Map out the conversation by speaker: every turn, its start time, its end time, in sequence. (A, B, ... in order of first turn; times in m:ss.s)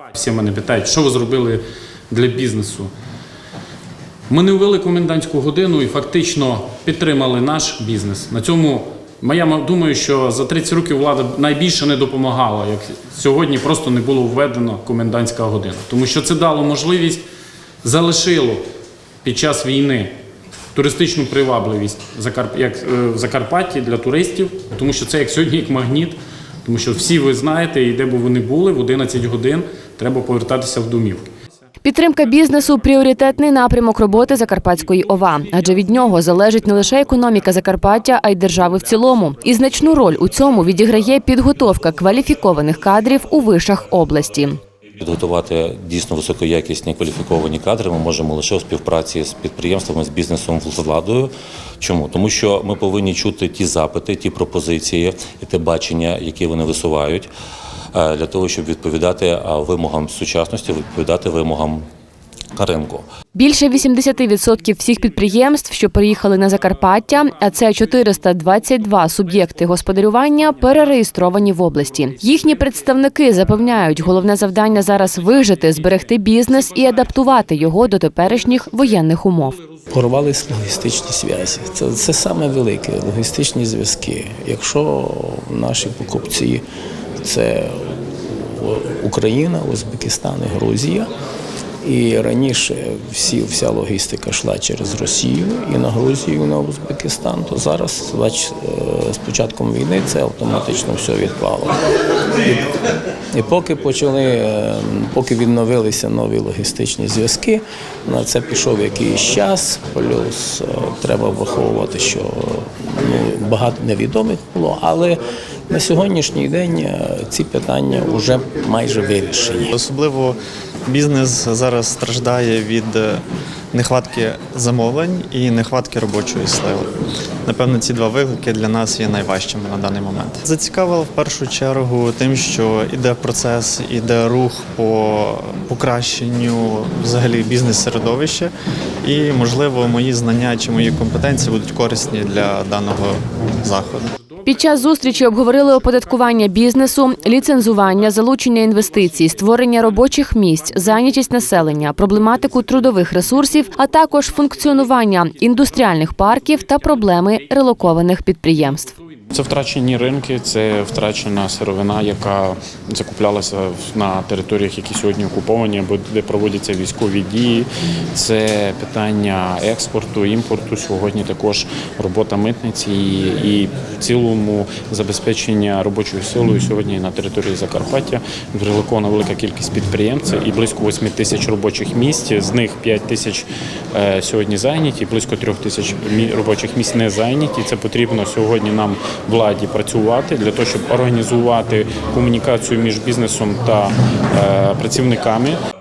0:00.2-0:02.9 A
0:04.3-0:17.2 A
0:17.8-0:18.6 A
0:19.2-0:20.2 A
0:20.7-0:31.3 A
0:31.8-0:44.6 B
0:45.0-0:57.3 C
0:57.9-1:01.8 C
1:02.6-1:03.1 C
1:03.4-1:19.6 B
1:19.9-1:26.6 D
1:27.2-1:31.1 D
1:31.8-1:41.8 D
1:43.3-1:59.8 D
1:59.8-2:03.2 E
2:03.7-2:06.9 E
2:07.5-2:18.5 E
2:19.0-2:24.1 E
2:24.4-2:38.9 B
2:39.3-3:15.6 A